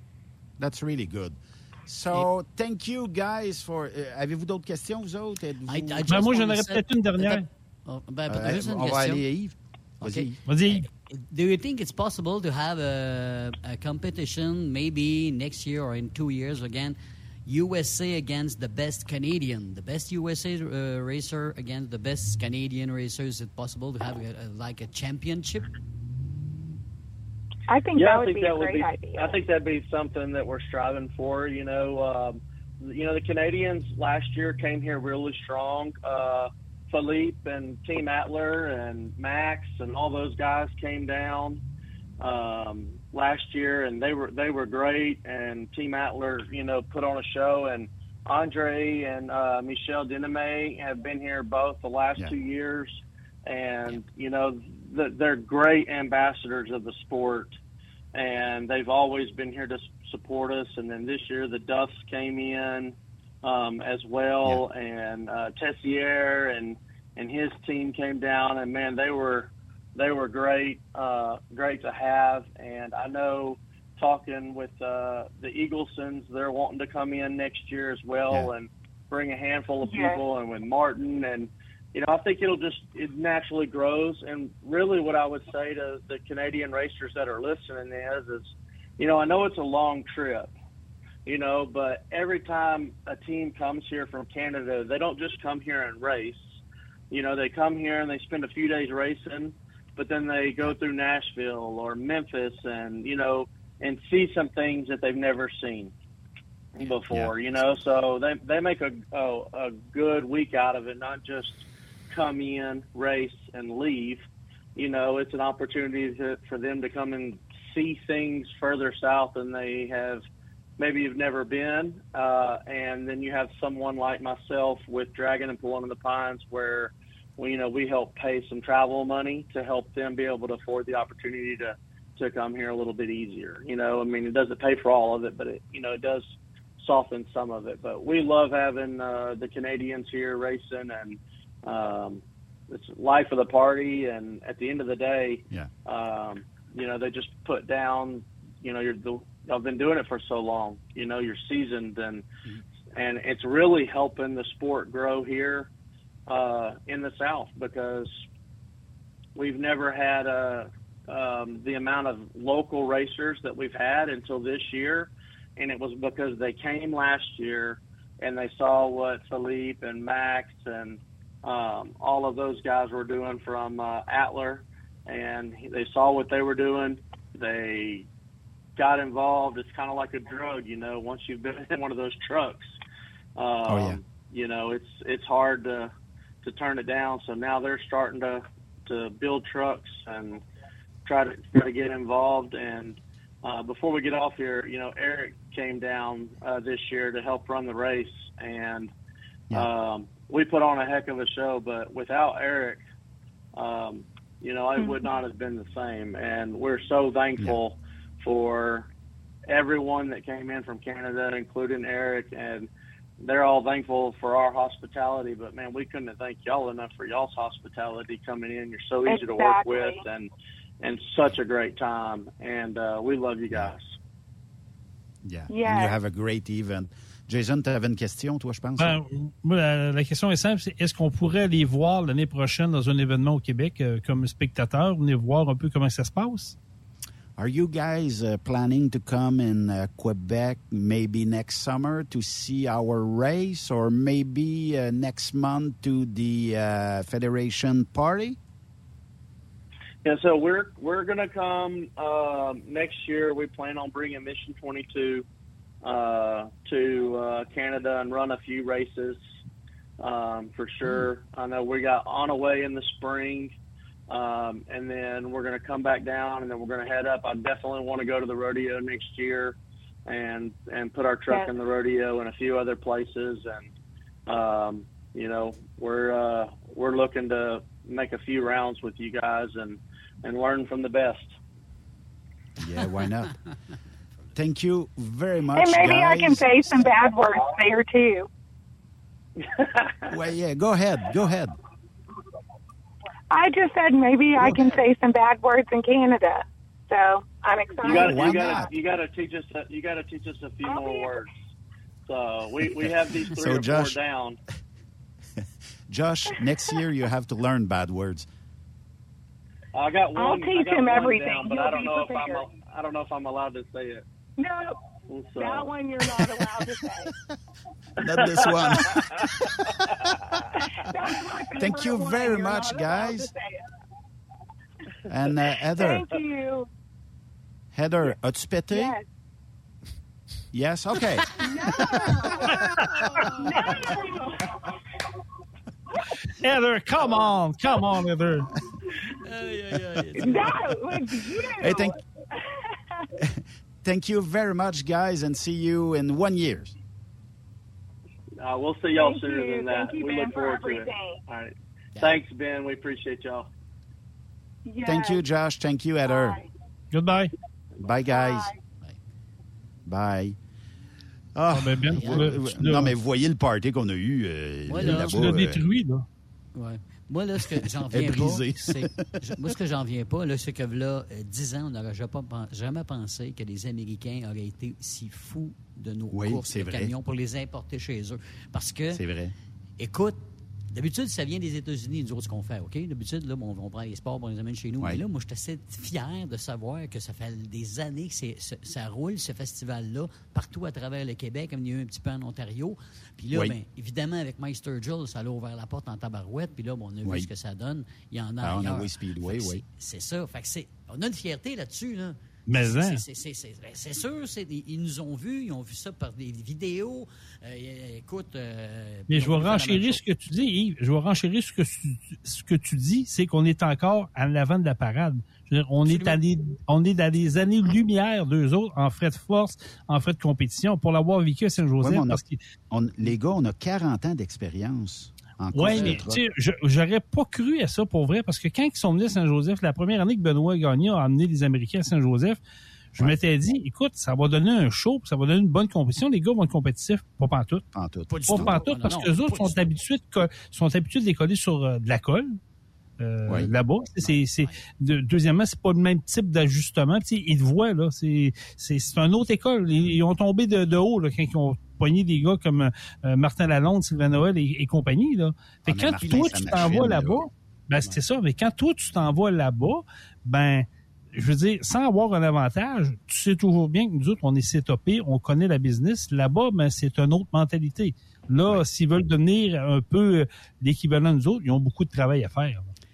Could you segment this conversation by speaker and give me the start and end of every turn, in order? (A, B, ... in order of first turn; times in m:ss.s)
0:00.6-0:06.2 A
0:05.7-0:09.2 B
0:06.1-0:07.4 C
0:08.3-0:10.4 A
0:10.0-0:25.7 B
0:10.5-0:10.9 C
0:27.7-0:29.4 D
0:28.0-0:41.6 E
0:42.2-0:57.5 E
0:58.1-1:30.5 E
1:19.8-1:20.2 D
1:31.3-1:36.4 E
1:37.1-1:45.9 E
1:46.8-1:54.2 E
1:46.8-1:47.7 A
1:54.8-2:00.2 E
2:00.8-2:16.3 E
2:16.8-2:32.2 E
2:33.0-2:35.7 E
2:36.3-2:38.1 E
2:39.4-2:58.1 E
2:58.8-3:02.7 E
3:03.4-3:05.9 E
3:03.7-3:04.0 A
3:06.4-3:10.4 E
3:11.0-3:18.9 E
3:19.5-3:22.8 E
3:23.5-3:28.9 E
3:24.8-3:25.0 D
3:29.5-3:32.7 E
3:33.2-3:43.9 E
3:39.0-3:40.0 D
3:45.2-3:49.0 A
3:45.5-3:46.0 D
3:48.8-3:56.6 C
3:57.4-4:08.4 A
4:10.0-4:15.2 E
4:15.8-4:19.2 E
4:20.0-4:23.5 E
4:24.1-4:33.7 E
4:31.3-4:31.6 D
4:34.3-4:41.3 E
4:42.6-4:43.4 A
4:44.4-4:46.7 A
4:45.6-4:48.3 D
4:49.6-4:49.9 E
4:50.1-4:51.6 A
4:53.3-4:58.7 D
4:57.8-4:58.7 A
4:57.9-5:01.3 E
5:00.6-5:01.2 D
5:02.1-5:04.4 E
5:02.8-5:04.0 A
5:05.9-5:08.3 A
5:09.7-5:14.0 E
5:10.2-5:12.5 D
5:14.4-5:17.1 D
5:15.1-5:15.7 E
5:18.0-5:19.4 A
5:20.8-5:23.6 D
5:21.6-5:23.3 A
5:25.1-5:26.1 A
5:25.7-5:26.7 D
5:27.7-5:29.0 A
5:28.7-5:29.0 D
5:30.5-5:31.4 A
5:31.4-5:32.6 D
5:33.2-5:34.5 D
5:36.4-5:38.5 C
5:39.2-5:40.6 B
5:40.2-5:41.9 D
5:41.6-5:42.0 A
5:43.2-5:46.8 A
5:48.4-5:53.5 E
5:48.9-5:51.2 D
5:52.0-5:52.2 B
5:54.7-5:55.2 D
5:54.8-5:56.4 A
5:56.0-5:56.5 D
5:56.9-5:57.3 C
5:57.8-5:58.5 A
5:58.1-5:58.6 D
5:59.9-6:00.4 A
6:01.4-6:05.6 A
6:01.5-6:03.0 C
6:01.9-6:02.4 B
6:04.7-6:05.3 B
6:04.8-6:06.1 C
6:06.5-6:19.0 B
6:07.9-6:09.2 A
6:16.1-6:16.9 A
6:18.9-6:19.4 A
6:19.8-6:50.0 B
6:33.3-6:33.6 A
6:38.4-6:39.6 A
6:42.5-6:43.0 C
6:49.1-7:02.4 C
6:55.9-6:56.2 B
7:01.8-7:06.2 A
7:05.5-7:12.4 C
7:05.7-7:06.0 B
7:13.0-7:17.6 C
7:17.7-7:18.6 A
7:18.1-7:19.7 B
7:18.3-7:22.4 C
7:23.0-7:52.7 C
7:23.3-7:23.5 A
7:35.7-7:37.2 A